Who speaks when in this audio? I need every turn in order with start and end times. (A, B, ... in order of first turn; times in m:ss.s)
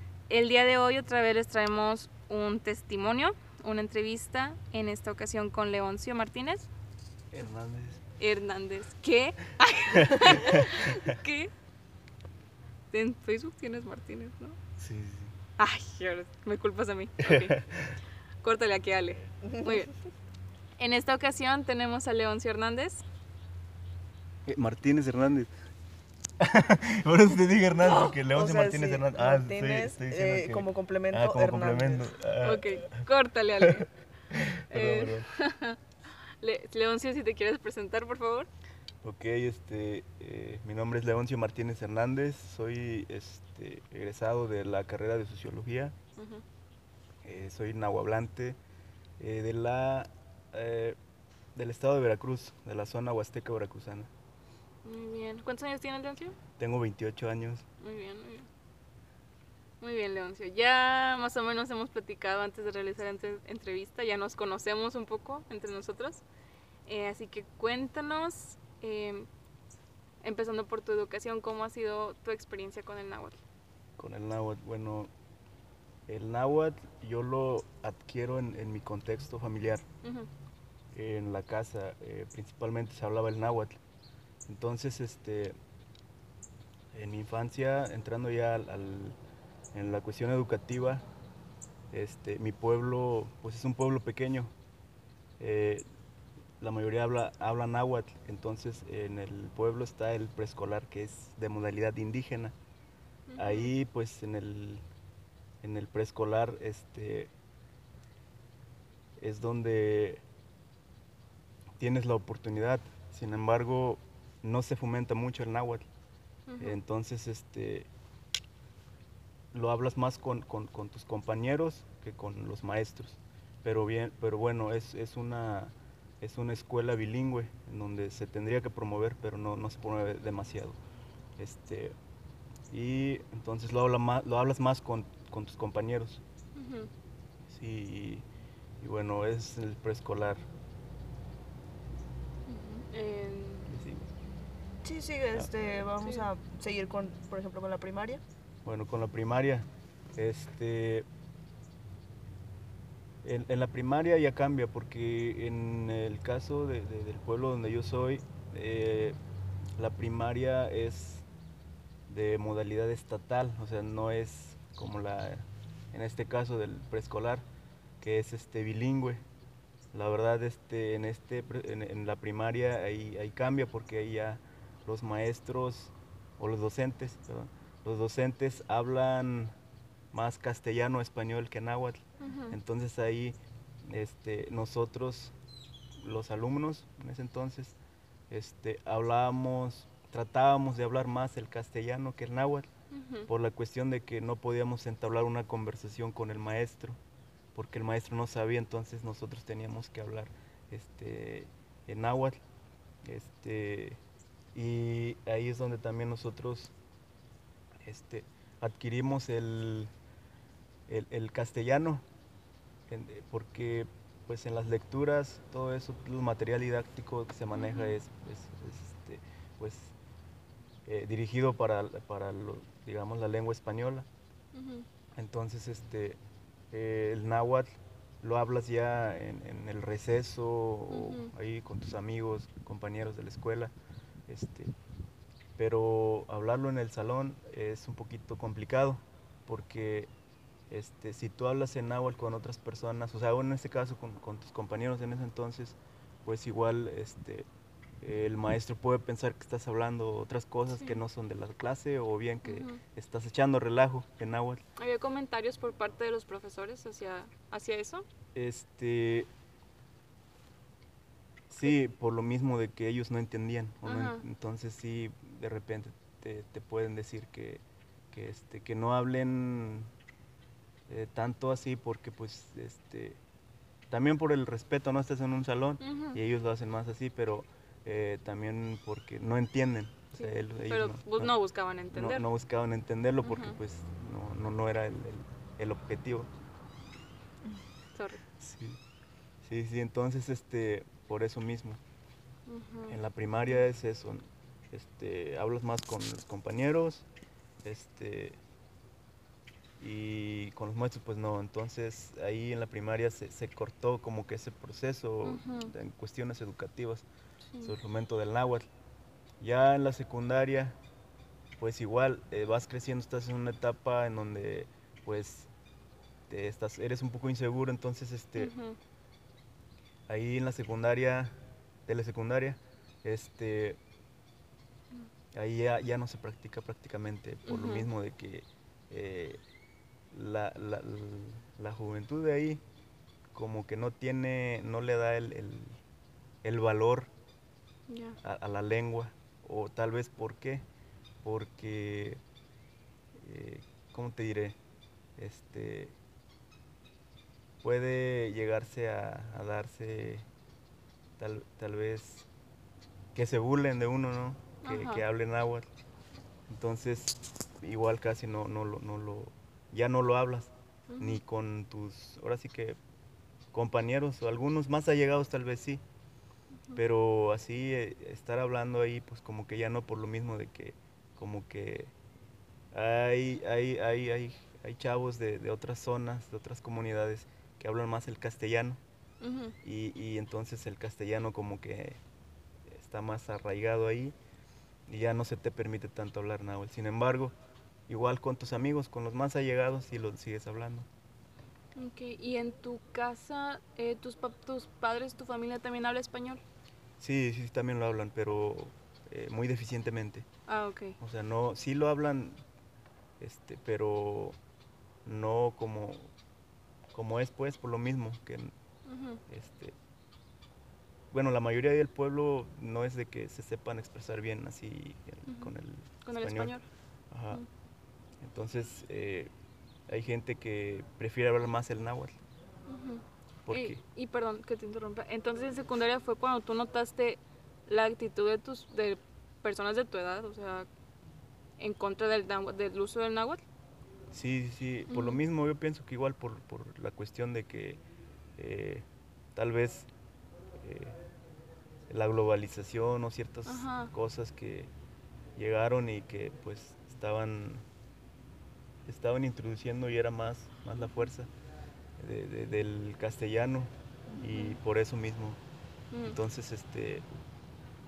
0:00.3-0:06.7 A
0:07.3-0:08.0 B
0:08.2-0:11.5 A
0:09.9-0:11.0 B
0:12.9-0:14.6 A
0:14.8-0:15.3 B
0:15.6-0:17.6 A
0:17.2-0:18.0 B
0:18.4-0:19.9 A
0:20.8-0:23.0 A
0:24.4-0:25.5 B
0:26.4-0:33.1 B
0:27.8-0:32.1 C
0:32.4-0:33.9 A
0:33.6-0:35.3 B
0:34.7-0:35.8 A
0:36.4-0:38.5 A
0:39.0-0:45.9 B
0:46.2-0:46.4 A
0:47.2-0:48.6 B
0:49.2-0:51.0 B
0:51.5-0:54.1 B
0:54.8-0:56.4 A
0:56.6-0:57.6 B
0:57.8-0:58.5 A
0:59.8-1:06.2 A
1:06.8-1:09.3 A
1:10.2-1:13.4 A
1:14.0-1:15.1 B
1:16.1-1:19.8 B
1:20.0-1:20.3 A
1:20.9-1:23.7 B
1:24.4-1:25.6 B
1:26.9-1:29.2 B
1:29.7-1:31.0 B
1:31.9-1:34.5 B
1:35.4-1:35.8 B
1:36.6-1:42.5 B
1:43.3-1:43.7 A
1:43.4-1:44.8 B
1:45.6-1:47.3 B
1:49.2-1:50.2 B
1:51.8-1:55.8 B
1:56.5-1:56.8 A
1:56.6-1:57.9 B
1:59.5-2:10.8 B
2:11.4-2:11.9 B
2:12.7-2:16.2 B
2:16.5-2:16.9 A
2:17.5-2:18.2 B
2:18.8-2:20.4 B
2:22.5-2:23.7 A
2:23.7-2:24.1 B
2:24.8-2:28.2 C
2:26.0-2:26.3 A
2:28.6-2:31.1 B
2:33.2-2:39.2 B
2:39.8-2:41.3 B
2:42.1-2:47.4 B
2:48.0-2:49.2 B
2:49.9-2:59.5 B
3:00.1-3:05.3 B
3:02.2-3:02.6 A
3:06.0-3:07.8 B
3:08.3-3:12.7 B
3:12.9-3:13.3 A
3:13.3-3:17.0 B
3:17.5-3:22.4 B
3:23.0-3:24.0 B
3:24.5-3:26.7 B
3:27.8-3:29.9 B
3:30.9-3:32.0 B
3:32.9-3:39.9 B
3:37.5-3:38.0 A
3:40.8-3:44.1 B
3:44.5-3:44.8 A
3:45.2-3:46.2 B
3:46.7-3:47.7 B
3:48.2-3:53.7 B
3:50.9-3:51.3 A
3:54.3-3:54.7 B
3:55.6-4:00.1 B
4:00.7-4:07.4 B
4:08.0-4:14.6 B
4:10.7-4:11.0 A
4:12.4-4:12.8 A
4:14.8-4:18.0 A
4:18.3-4:19.3 B
4:21.5-4:29.9 B
4:23.8-4:24.2 A
4:30.9-4:33.2 B
4:33.9-4:41.3 B
4:35.8-4:36.2 A
4:40.2-4:42.2 A
4:41.9-4:46.3 B
4:43.2-4:43.6 A
4:47.9-4:48.2 A
4:48.4-4:48.8 B
4:49.4-4:51.8 B
4:52.5-4:53.0 A
4:52.9-4:57.1 B
4:57.6-4:58.4 B
4:59.8-5:07.0 B
5:05.2-5:05.7 A
5:07.6-5:08.6 B
5:09.4-5:10.8 B
5:11.6-5:15.5 B
5:16.3-5:18.5 B
5:18.4-5:18.8 A
5:20.1-5:21.3 B
5:21.9-5:23.8 B
5:25.3-5:29.4 B
5:27.4-5:27.9 A
5:30.1-5:32.6 B
5:33.3-5:35.8 B
5:36.4-5:37.1 B
5:37.9-5:38.2 A
5:38.2-5:40.6 B
5:41.2-5:42.2 B
5:43.1-5:44.6 B
5:45.2-5:46.0 B
5:47.6-5:50.2 B
5:51.2-5:52.3 B
5:53.1-5:55.7 B
5:54.6-5:55.0 A
5:56.5-6:02.8 B
6:00.9-6:01.2 A
6:03.5-6:05.8 B
6:06.7-6:11.9 B
6:12.7-6:18.8 B
6:19.2-6:19.5 A
6:19.6-6:22.0 B
6:22.7-6:24.1 B
6:24.9-6:27.3 B
6:27.9-6:30.9 B
6:31.8-6:36.4 A
6:37.0-6:40.2 B
6:40.5-6:41.0 A
6:41.0-6:42.4 B
6:43.2-6:44.4 B
6:45.0-6:46.1 B
6:46.9-6:48.5 B
6:48.8-6:49.2 A
6:49.3-6:49.8 B
6:51.1-6:56.6 B
6:56.0-6:56.6 A
6:57.1-6:57.4 B
6:58.2-6:59.3 B
6:59.9-7:02.1 B
7:02.7-7:10.7 A
7:03.4-7:03.8 B
7:11.6-7:13.4 A
7:14.1-7:17.8 B
7:14.9-7:15.2 A
7:18.4-7:19.9 B
7:20.6-7:21.0 B
7:21.9-7:24.7 B
7:23.4-7:23.9 A
7:25.4-7:27.6 B
7:28.8-7:31.3 B
7:32.0-7:35.4 B
7:34.3-7:34.5 A
7:36.0-7:37.0 B